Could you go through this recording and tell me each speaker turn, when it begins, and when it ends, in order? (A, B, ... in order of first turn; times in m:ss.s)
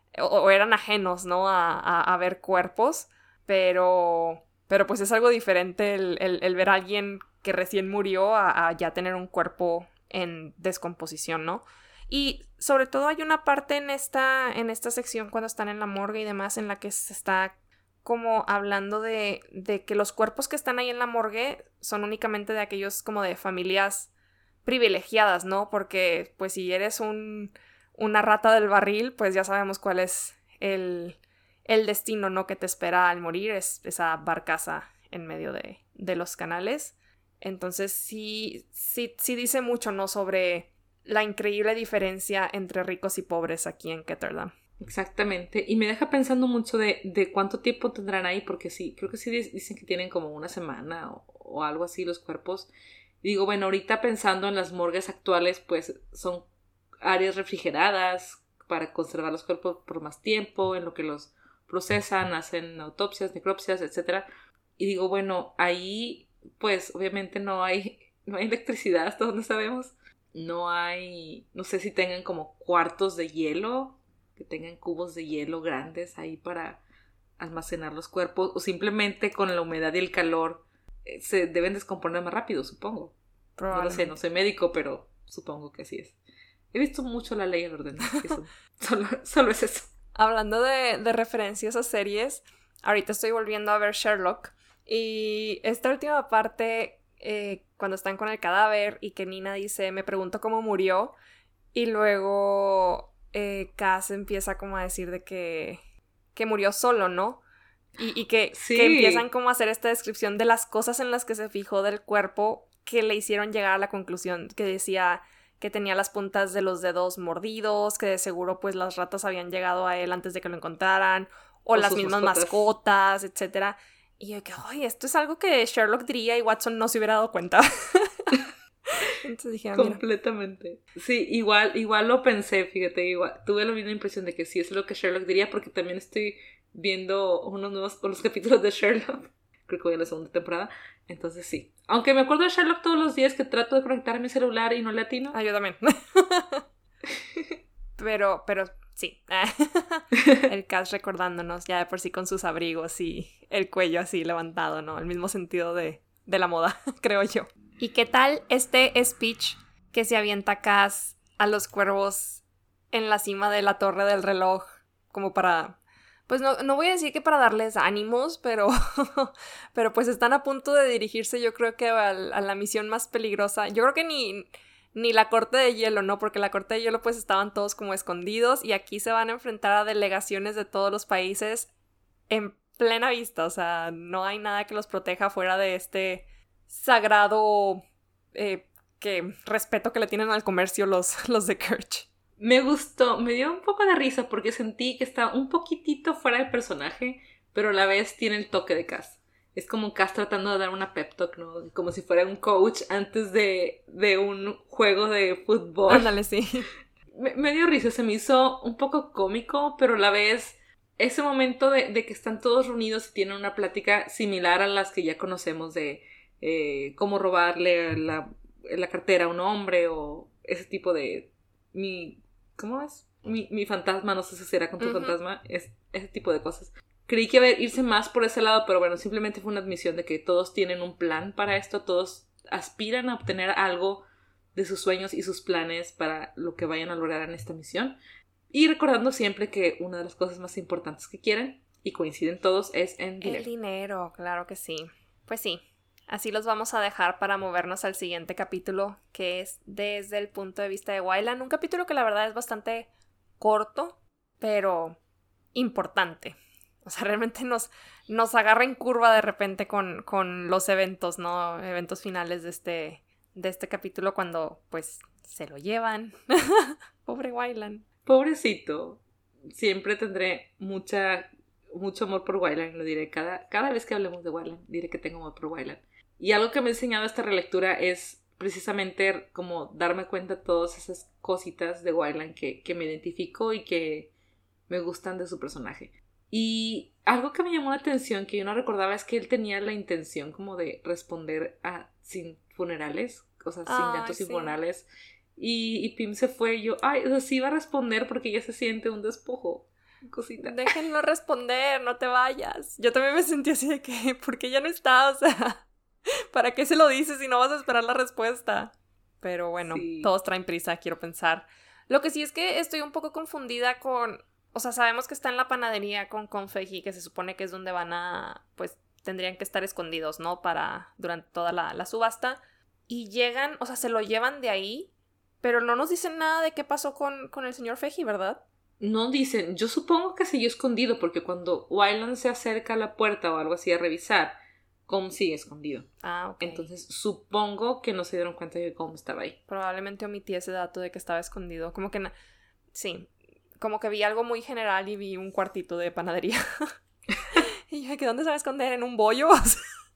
0:00.2-0:24.1 A
0:24.6-0:44.5 A
0:44.8-0:52.7 B
0:53.2-0:56.5 B
0:57.0-1:04.2 B
1:04.8-1:16.8 B
1:17.4-1:23.1 B
1:23.6-1:24.1 A
1:23.7-1:26.2 B
1:26.7-1:29.9 B
1:30.1-1:41.1 A
1:41.7-1:45.8 A
1:46.3-1:47.4 A
1:48.0-2:08.4 A
1:48.5-1:49.2 B
2:01.7-2:02.7 B
2:09.0-2:10.0 A
2:09.7-2:25.4 B
2:25.3-2:26.6 A
2:28.0-3:01.7 A
3:02.3-3:07.8 A
3:08.3-3:12.1 A
3:12.4-3:26.1 B
3:25.9-3:26.7 A
3:27.1-3:54.0 B
3:44.8-3:45.2 A
3:54.5-3:58.0 B
3:58.5-4:03.5 B
4:03.2-4:12.9 A
4:13.4-4:15.0 A
4:15.5-4:27.8 A
4:28.0-4:44.1 B
4:44.7-5:00.7 B
4:53.6-4:54.5 A
5:00.4-5:05.7 A
5:06.3-5:24.9 A
5:09.7-5:10.1 B
5:25.4-5:28.4 A
5:28.8-5:34.4 B
5:34.9-5:35.9 B
5:36.0-5:36.7 A
5:36.4-5:39.4 B
5:39.5-5:42.1 A
5:42.7-5:46.6 A
5:47.4-5:49.6 A